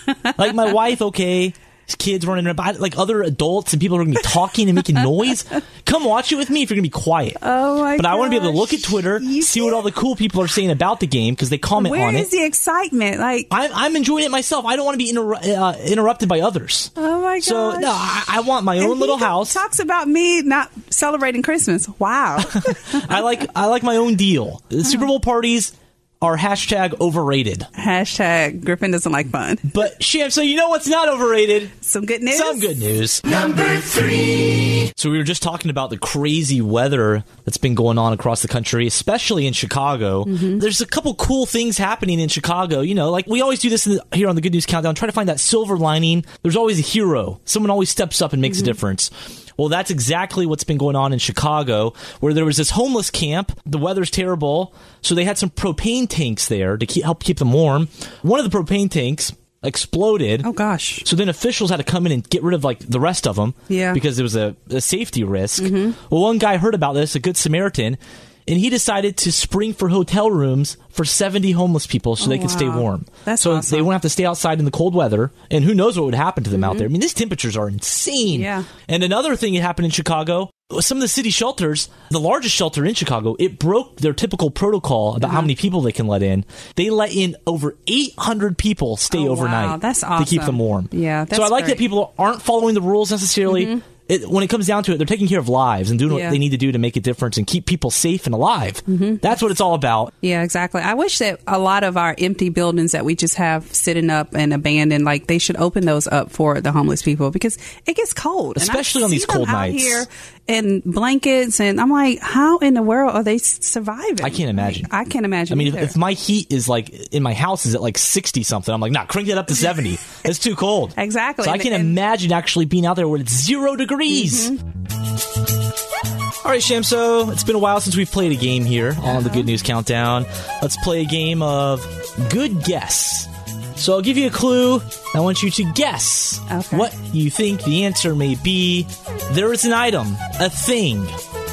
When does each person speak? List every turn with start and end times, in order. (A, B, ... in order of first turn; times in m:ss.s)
0:00.3-0:07.4 A
0:07.4-0:09.8 B
0:08.0-0:12.3 A
0:11.8-0:13.5 B
0:13.5-0:19.6 A
0:17.0-0:18.1 B
0:18.8-0:23.2 B
0:22.4-0:27.7 A
0:27.8-0:29.7 B
0:29.7-0:31.7 A
0:31.8-0:32.8 B
0:32.3-1:00.5 A
0:40.3-0:40.6 B
0:48.5-0:48.8 B
1:00.4-1:01.1 B
1:01.0-1:40.1 A
1:03.7-1:04.0 B
1:05.6-1:06.0 B
1:12.2-1:13.9 B
1:16.6-1:16.9 B
1:18.3-1:18.7 B
1:25.2-1:25.5 B
1:29.1-1:31.8 B
1:33.4-1:33.8 B
1:36.1-1:36.4 B
1:38.9-1:39.2 B
1:40.2-1:56.0 B
1:48.6-1:50.1 A
1:54.2-1:54.9 A
1:55.5-2:04.6 A
2:01.0-2:02.0 B
2:04.1-2:04.6 B
2:06.4-2:21.1 A
2:09.1-2:09.5 B
2:16.5-2:16.9 B